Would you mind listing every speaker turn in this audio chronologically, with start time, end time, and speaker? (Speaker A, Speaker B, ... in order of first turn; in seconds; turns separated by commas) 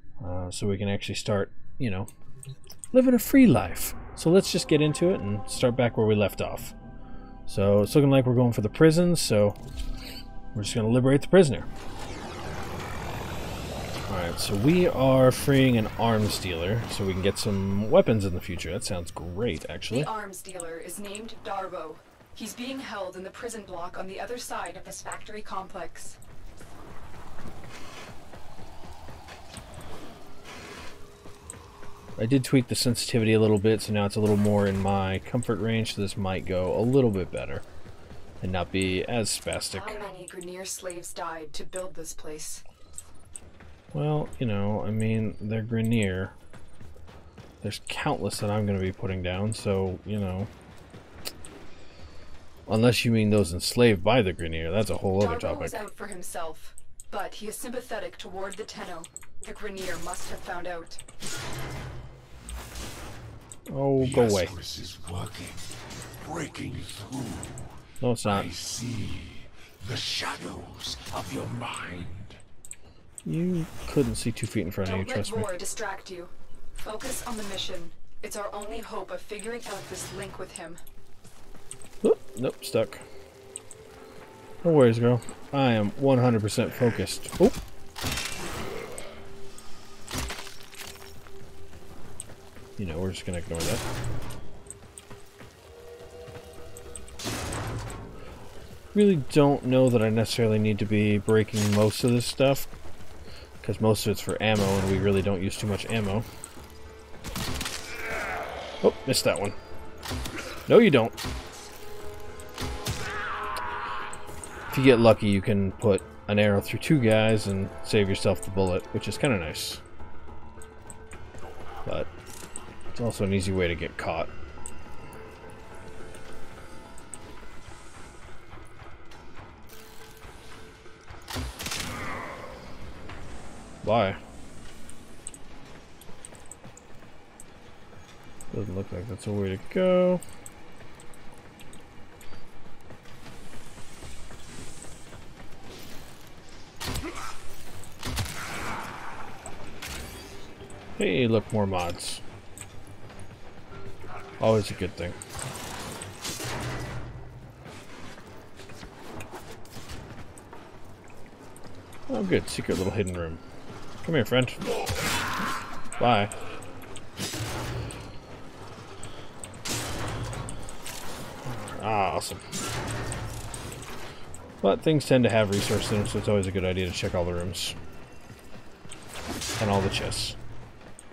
Speaker A: 0.2-2.1, Speaker A: 2.9-6.7, Speaker A: 7.5-9.6, Speaker A: 10.5-11.7, Speaker A: 14.1-20.1, Speaker B: 19.9-26.2, Speaker A: 32.2-37.6, Speaker A: 38.4-40.0, Speaker B: 39.7-42.6, Speaker A: 43.9-46.3, Speaker A: 47.6-50.5, Speaker A: 52.7-55.8, Speaker B: 55.2-61.0, Speaker A: 63.7-64.5, Speaker C: 64.0-72.4, Speaker A: 68.0-68.5, Speaker A: 73.2-75.5, Speaker B: 74.8-80.8, Speaker A: 82.0-83.0, Speaker A: 84.6-87.6, Speaker A: 92.8-93.8, Speaker A: 98.9-102.7, Speaker A: 103.6-106.2, Speaker A: 108.8-109.5, Speaker A: 110.7-111.2, Speaker A: 114.7-119.8, Speaker A: 122.9-124.3, Speaker A: 133.8-134.2, Speaker A: 138.5-140.2, Speaker A: 151.0-152.2, Speaker A: 154.4-155.2, Speaker A: 162.1-163.4, Speaker A: 164.0-164.6, Speaker A: 166.0-166.3, Speaker A: 171.4-172.4, Speaker A: 174.6-177.8, Speaker A: 179.6-180.3